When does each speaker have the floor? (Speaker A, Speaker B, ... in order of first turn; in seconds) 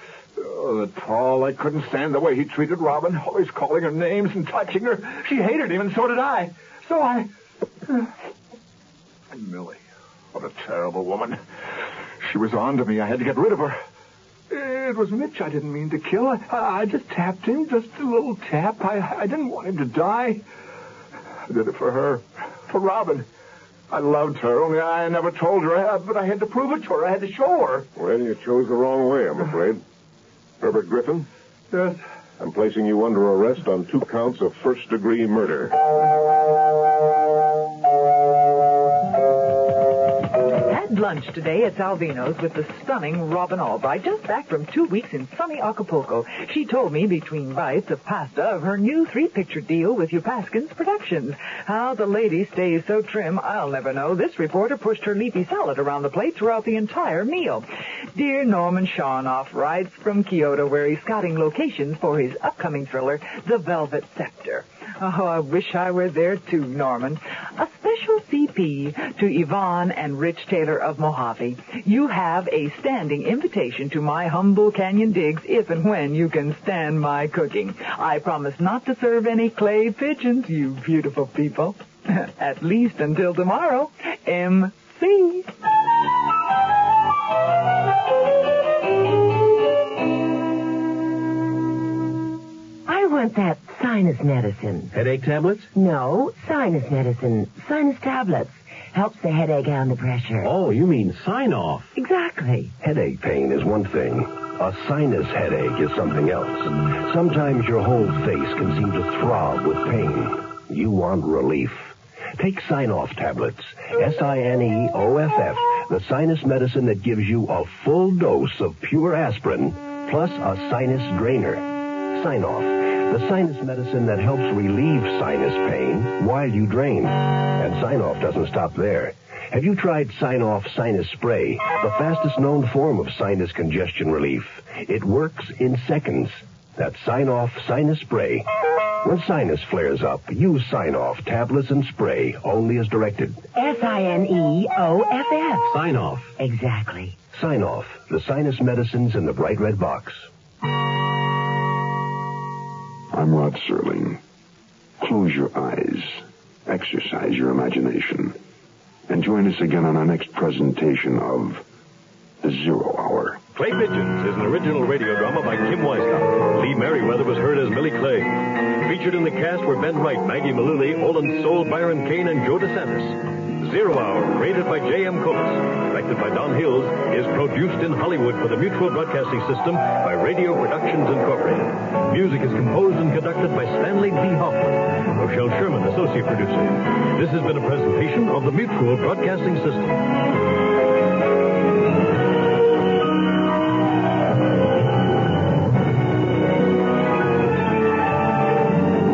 Speaker A: 0.4-7.3, 9.3-9.8, 10.3-11.4, 12.2-13.8, 14.5-20.4, 21.5-23.3, 23.9-27.9, 31.7-32.0
Speaker B: 28.0-29.8, 30.6-31.3, 32.4-35.8
Speaker C: 40.6-85.5
Speaker D: 92.9-95.0, 95.7-100.5, 102.0-102.7, 143.6-145.8, 146.4-147.2
Speaker E: 94.9-95.7, 100.4-101.9, 145.7-146.3
Speaker F: 102.8-143.4, 147.3-150.3
Speaker G: 153.1-154.2, 155.0-158.4, 159.1-161.6, 162.4-163.4
Speaker H: 163.6-190.1